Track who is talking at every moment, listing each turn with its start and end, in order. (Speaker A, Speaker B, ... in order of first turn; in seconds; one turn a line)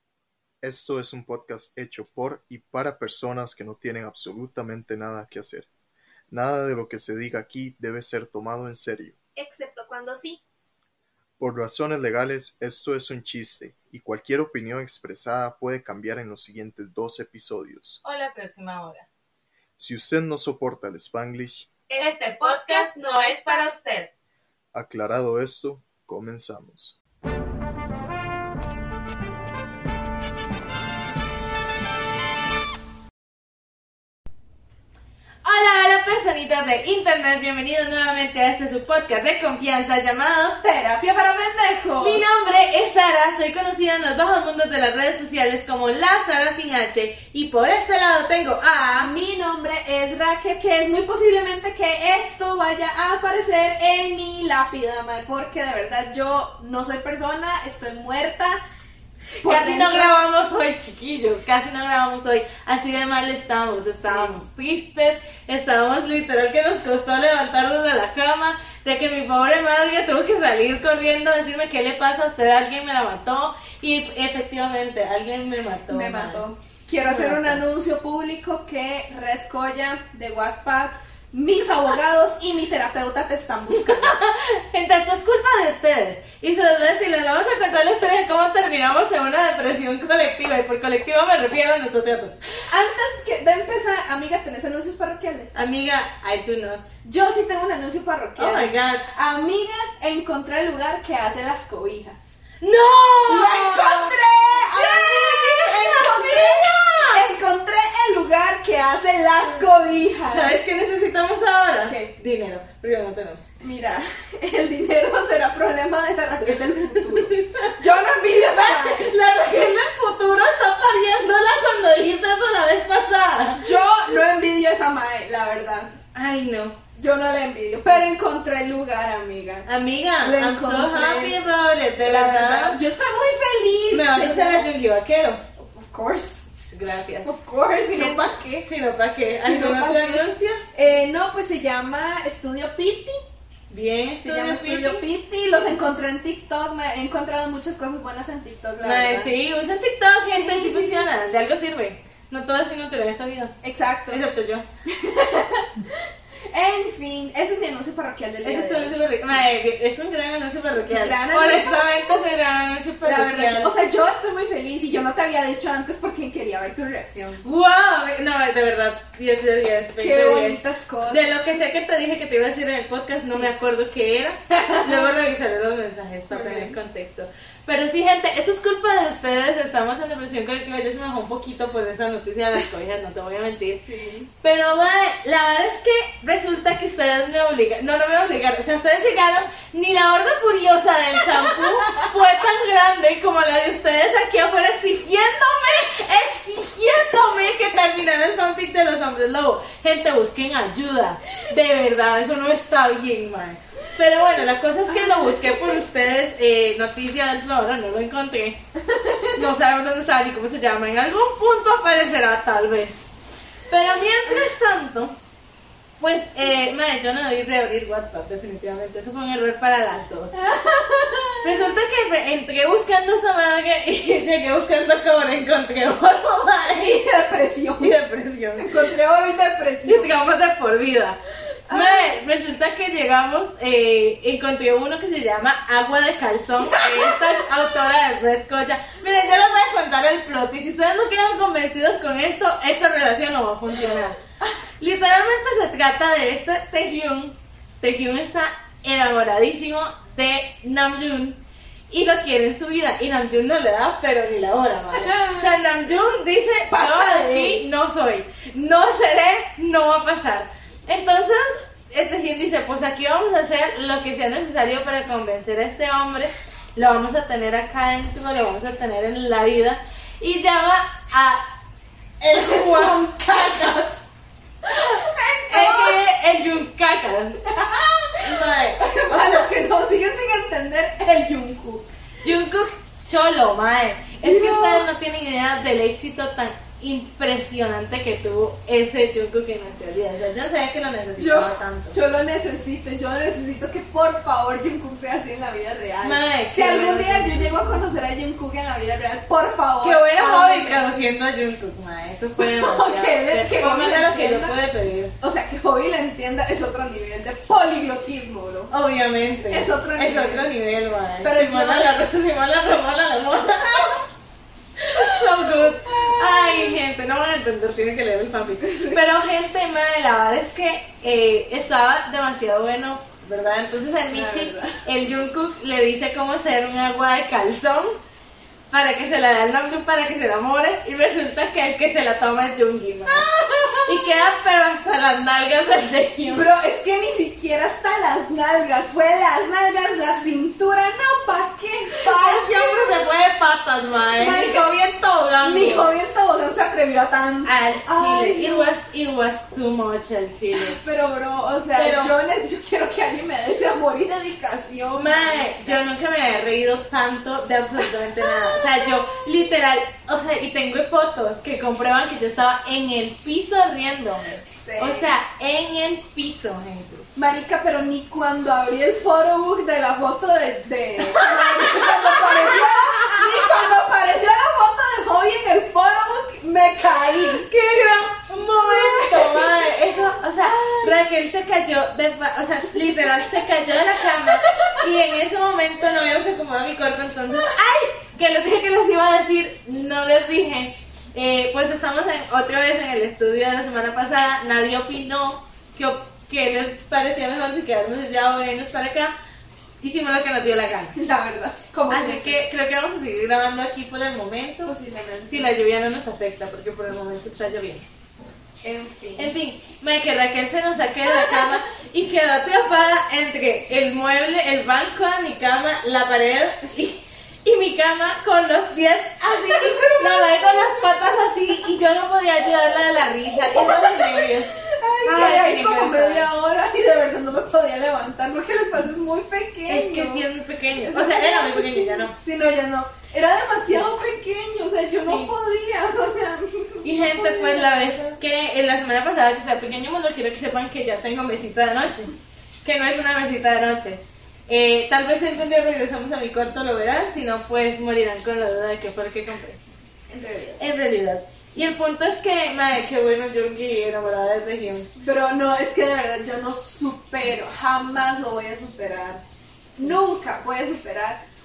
Speaker A: 0.6-5.7
Speaker A: 6.3-9.2
Speaker B: 9.4-10.4
Speaker A: 11.4-18.0
Speaker C: 18.0-19.1
Speaker A: 19.8-21.7
Speaker C: 21.9-24.1
Speaker A: 24.7-27.0
Speaker C: 35.4-40.6
Speaker B: 40.6-42.2
Speaker C: 42.0-49.1
Speaker B: 49.0-58.6
Speaker C: 59.4-76.4
Speaker B: 59.4-60.1
Speaker B: 64.0-64.3
Speaker B: 75.9-84.2
Speaker C: 77.0-77.6
Speaker C: 83.7-92.4
Speaker B: 92.7-95.6
Speaker C: 95.5-96.8
Speaker B: 97.0-102.3
Speaker C: 98.4-99.1
Speaker C: 102.6-107.2
Speaker B: 103.3-110.5
Speaker C: 110.3-113.5
Speaker B: 111.8-112.1
Speaker B: 113.6-119.1
Speaker C: 116.7-117.8
Speaker C: 118.5-123.7
Speaker B: 123.6-125.9
Speaker C: 126.1-126.8
Speaker B: 127.0-129.7
Speaker C: 129.7-132.8
Speaker B: 130.2-131.3
Speaker B: 132.0-134.7
Speaker C: 133.9-135.4
Speaker B: 135.6-136.4
Speaker C: 136.7-137.3
Speaker B: 137.2-138.7
Speaker C: 137.9-140.6
Speaker B: 139.4-143.2
Speaker C: 143.7-145.0
Speaker B: 144.2-149.3
Speaker C: 148.8-153.5
Speaker B: 150.3-151.1
Speaker B: 153.6-154.2
Speaker C: 154.1-154.6
Speaker B: 154.9-155.7
Speaker B: 156.5-159.3
Speaker C: 158.4-163.8
Speaker B: 160.8-162.2
Speaker B: 163.0-167.4
Speaker C: 167.4-183.8
Speaker B: 170.0-171.2
Speaker B: 174.7-175.1
Speaker B: 176.3-176.8
Speaker B: 183.8-184.3
Speaker C: 184.4-208.6
Speaker B: 191.5-192.0
Speaker B: 204.9-205.8
Speaker B: 208.9-209.3
Speaker C: 209.3-213.1
Speaker C: 213.7-215.2
Speaker C: 216.0-220.4
Speaker B: 220.3-221.7
Speaker C: 221.4-226.9
Speaker B: 226.7-227.9
Speaker C: 227.8-228.7
Speaker B: 228.6-230.1
Speaker C: 229.8-244.2
Speaker B: 231.7-232.2
Speaker B: 236.7-237.5
Speaker C: 244.8-271.5
Speaker B: 255.0-255.5
Speaker B: 256.7-257.6
Speaker C: 272.2-273.8
Speaker B: 272.3-274.0
Speaker B: 274.6-276.0
Speaker C: 274.7-277.4
Speaker B: 277.4-281.9
Speaker C: 278.2-279.5
Speaker C: 282.2-292.0
Speaker B: 284.2-284.9
Speaker B: 291.2-301.0
Speaker C: 296.0-297.5
Speaker C: 299.8-305.1
Speaker B: 302.4-304.5
Speaker B: 305.2-308.7
Speaker C: 308.7-314.0
Speaker B: 309.5-310.5
Speaker B: 311.2-311.9
Speaker C: 314.8-328.0
Speaker B: 314.9-316.8
Speaker B: 318.6-319.0
Speaker B: 324.1-324.8
Speaker C: 328.7-333.3
Speaker B: 333.1-334.1
Speaker C: 333.8-336.4
Speaker B: 336.3-343.0
Speaker C: 341.9-345.9
Speaker B: 344.1-344.8
Speaker B: 345.4-348.7
Speaker C: 347.4-350.8
Speaker B: 350.5-355.8
Speaker C: 351.8-352.1
Speaker C: 354.9-367.1
Speaker B: 358.5-358.9
Speaker B: 364.6-365.1
Speaker B: 367.1-377.5
Speaker C: 371.1-373.6
Speaker C: 377.4-399.1
Speaker B: 378.6-379.7
Speaker B: 380.4-380.9
Speaker B: 384.2-384.9
Speaker B: 387.3-387.8
Speaker C: 399.8-400.9
Speaker B: 400.9-402.4
Speaker C: 401.9-404.7
Speaker B: 404.6-405.5
Speaker C: 405.3-407.9
Speaker B: 408.6-409.3
Speaker C: 409.2-426.3
Speaker B: 411.1-411.5
Speaker B: 419.3-420.7
Speaker B: 423.3-430.2
Speaker C: 429.7-432.1
Speaker B: 430.8-437.9
Speaker C: 435.0-435.3
Speaker C: 436.8-442.1
Speaker C: 442.6-449.6
Speaker B: 450.1-450.6
Speaker C: 450.6-454.9
Speaker B: 455.0-459.2
Speaker B: 459.8-461.2